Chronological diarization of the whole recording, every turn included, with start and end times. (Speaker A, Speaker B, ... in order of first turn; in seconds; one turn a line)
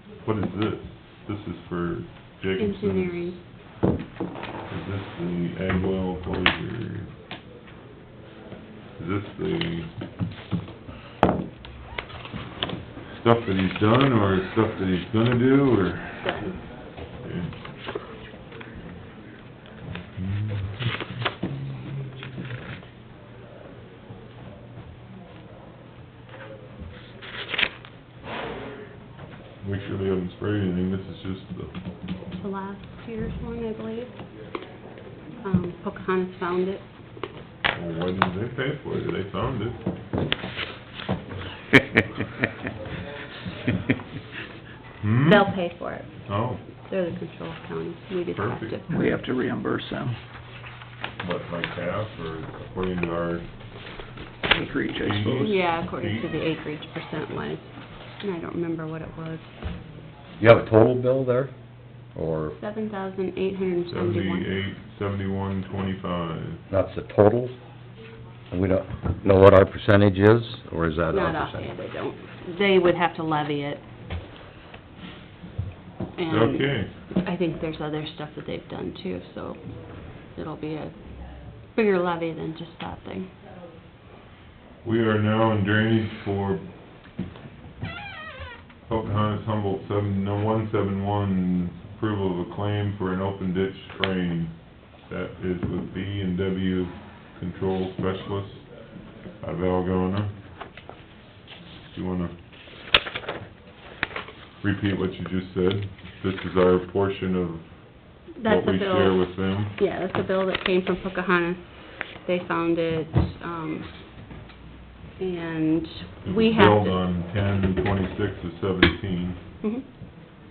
Speaker A: 0.2-3.4
Speaker B: 2.6-3.4
Speaker A: 4.7-7.1
Speaker A: 9.0-9.9
Speaker A: 13.2-16.5
Speaker B: 16.2-16.5
Speaker A: 17.2-17.6
Speaker A: 20.1-20.9
Speaker A: 29.6-31.7
Speaker B: 32.4-34.1
Speaker B: 35.4-36.8
Speaker A: 37.7-39.8
Speaker A: 45.0-45.5
Speaker B: 45.2-46.1
Speaker A: 46.2-46.6
Speaker B: 46.9-49.2
Speaker A: 48.3-48.8
Speaker C: 48.9-50.1
Speaker A: 51.2-53.4
Speaker C: 54.5-55.4
Speaker A: 54.9-56.3
Speaker B: 55.4-59.5
Speaker D: 60.4-61.5
Speaker D: 62.1-62.5
Speaker B: 62.5-64.5
Speaker A: 63.9-66.6
Speaker D: 66.7-67.5
Speaker D: 68.5-71.8
Speaker B: 71.1-73.8
Speaker B: 76.2-79.6
Speaker A: 76.3-76.9
Speaker B: 80.2-80.9
Speaker B: 81.7-83.3
Speaker A: 84.8-86.6
Speaker A: 88.8-98.7
Speaker A: 99.4-100.3
Speaker A: 101.9-102.3
Speaker A: 104.6-107.8
Speaker B: 108.4-113.9
Speaker A: 108.4-109.7
Speaker B: 115.2-117.0
Speaker A: 116.2-119.4